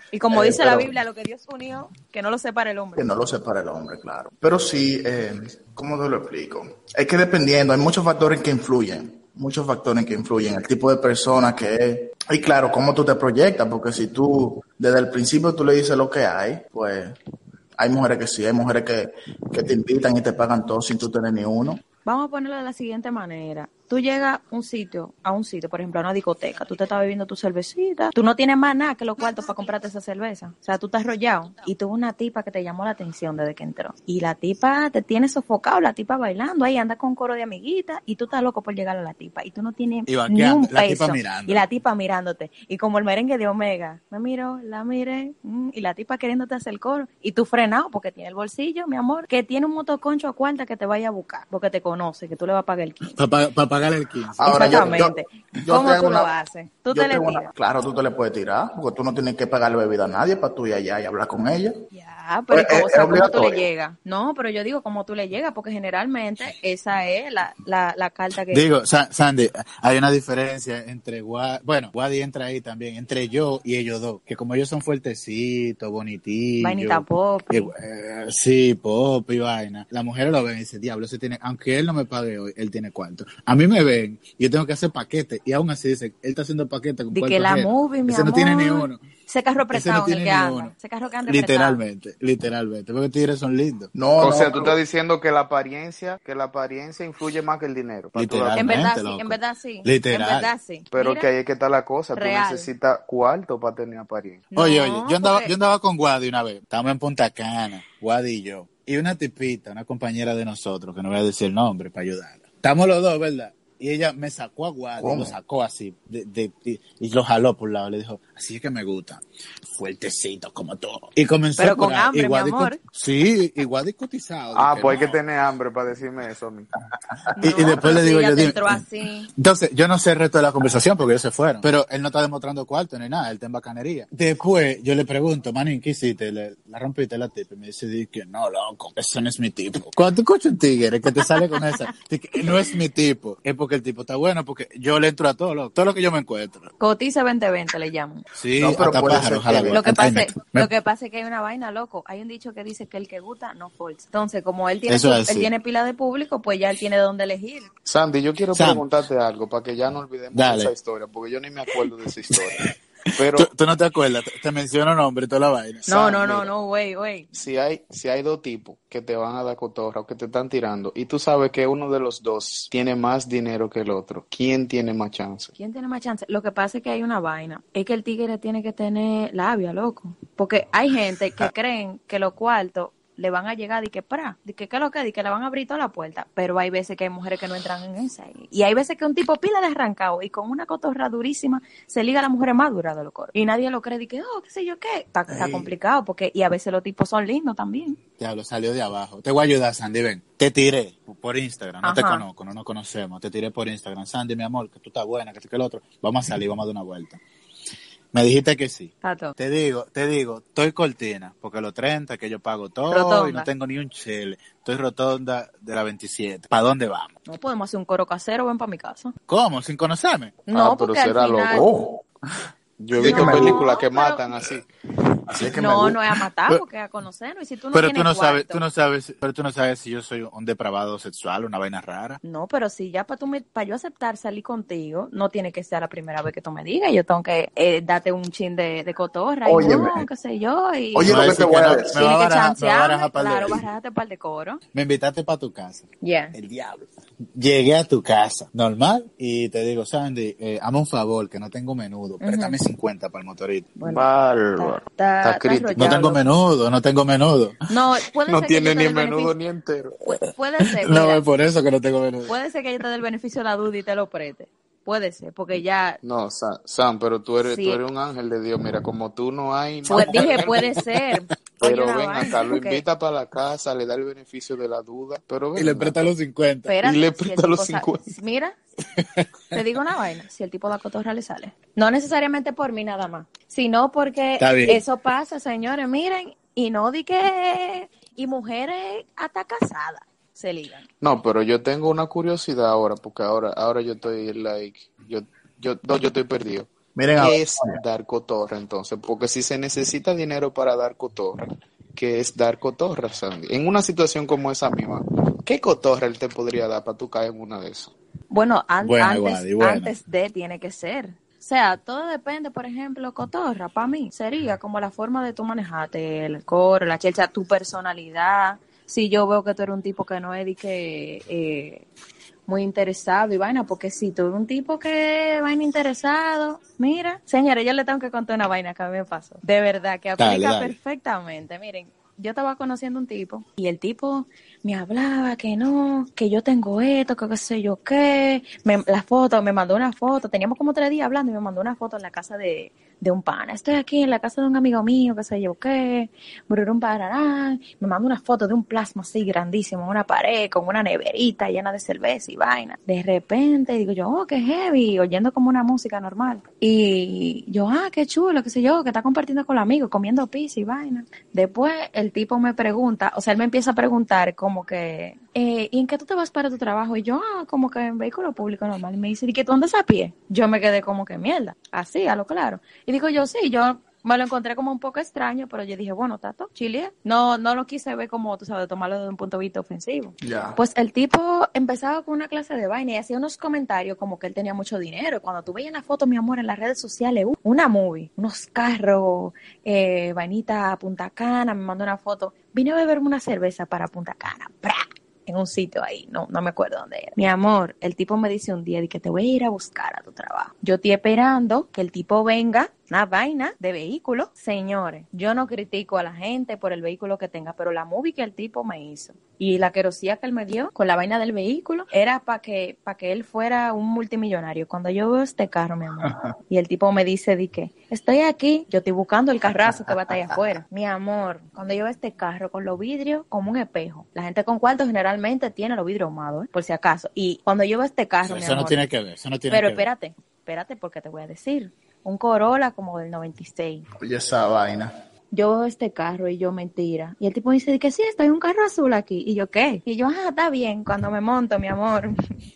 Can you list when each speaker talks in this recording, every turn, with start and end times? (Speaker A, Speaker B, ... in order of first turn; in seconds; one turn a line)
Speaker A: 0.1-3.1
Speaker B: 0.3-0.9
Speaker B: 3.0-17.2
Speaker B: 17.8-21.8
Speaker A: 22.1-53.2
Speaker C: 40.1-41.7
Speaker C: 53.1-54.9
Speaker B: 54.4-56.3
Speaker A: 54.4-57.5
Speaker B: 56.9-61.8
Speaker A: 61.9-68.7
Speaker B: 62.5-63.7
Speaker C: 68.5-89.0
Speaker A: 76.6-77.7
Speaker A: 87.1-91.8
Speaker C: 89.7-90.7
Speaker C: 91.3-93.9
Speaker B: 93.9-94.8
Speaker D: 94.2-98.8
Speaker C: 98.2-100.5
Speaker A: 98.6-101.3
Speaker D: 100.9-104.5
Speaker A: 102.2-102.7
Speaker A: 104.5-105.5
Speaker C: 104.5-119.2
Speaker B: 115.0-115.3
Speaker C: 119.7-125.2
Speaker A: 121.6-122.8
Speaker D: 124.5-126.7
Speaker A: 127.4-129.3
Speaker C: 127.4-128.8
Speaker C: 129.3-146.7
Speaker A: 146.8-148.2
Speaker C: 148.3-150.7
Speaker B: 148.6-149.8
Speaker A: 149.7-157.7
Speaker C: 154.9-155.5
Speaker D: 157.8-163.5
Speaker C: 158.5-158.8
Speaker C: 160.3-160.7
Speaker C: 163.3-166.4
Speaker A: 165.9-167.3
Speaker D: 167.3-175.5
Speaker A: 175.6-198.0
Speaker B: 195.3-195.7
Speaker C: 198.2-207.2
Speaker A: 201.8-202.2
Speaker C: 208.1-217.1
Speaker A: 209.0-209.3
Speaker A: 212.9-213.5
Speaker A: 217.3-219.1
Speaker C: 219.3-220.4
Speaker A: 220.5-221.7
Speaker D: 220.5-221.7
Speaker B: 221.5-222.0
Speaker D: 222.8-224.7
Speaker B: 223.0-223.7
Speaker A: 223.0-224.2
Speaker B: 225.3-226.0
Speaker A: 225.5-228.6
Speaker C: 227.7-232.2
Speaker A: 232.2-241.4
Speaker B: 239.5-240.1
Speaker B: 240.9-242.1
Speaker C: 241.1-243.6
Speaker A: 241.9-244.6
Speaker C: 244.7-253.7
Speaker A: 246.0-246.3
Speaker A: 252.2-252.6
Speaker A: 253.8-256.2
Speaker D: 253.9-256.0
Speaker C: 255.8-257.6
Speaker A: 257.7-259.4
Speaker D: 258.3-260.0
Speaker A: 260.1-261.2
Speaker C: 260.6-262.3
Speaker A: 262.3-266.0
Speaker D: 266.0-270.8
Speaker A: 267.4-267.8
Speaker A: 269.9-272.8
Speaker C: 269.9-270.5
Speaker D: 271.6-276.1
Speaker C: 275.6-276.7
Speaker A: 276.7-278.6
Speaker D: 276.8-278.1
Speaker C: 279.0-279.3
Speaker A: 279.5-290.9
Speaker C: 284.4-284.8
Speaker D: 291.0-301.4
Speaker B: 297.0-297.8
Speaker D: 302.0-307.9
Speaker A: 308.3-321.9
Speaker C: 308.8-309.9
Speaker A: 322.5-428.8
Speaker C: 330.2-330.8
Speaker B: 380.2-380.6
Speaker C: 428.2-429.8
Speaker A: 429.5-433.9
Speaker B: 434.0-434.9
Speaker A: 435.3-442.2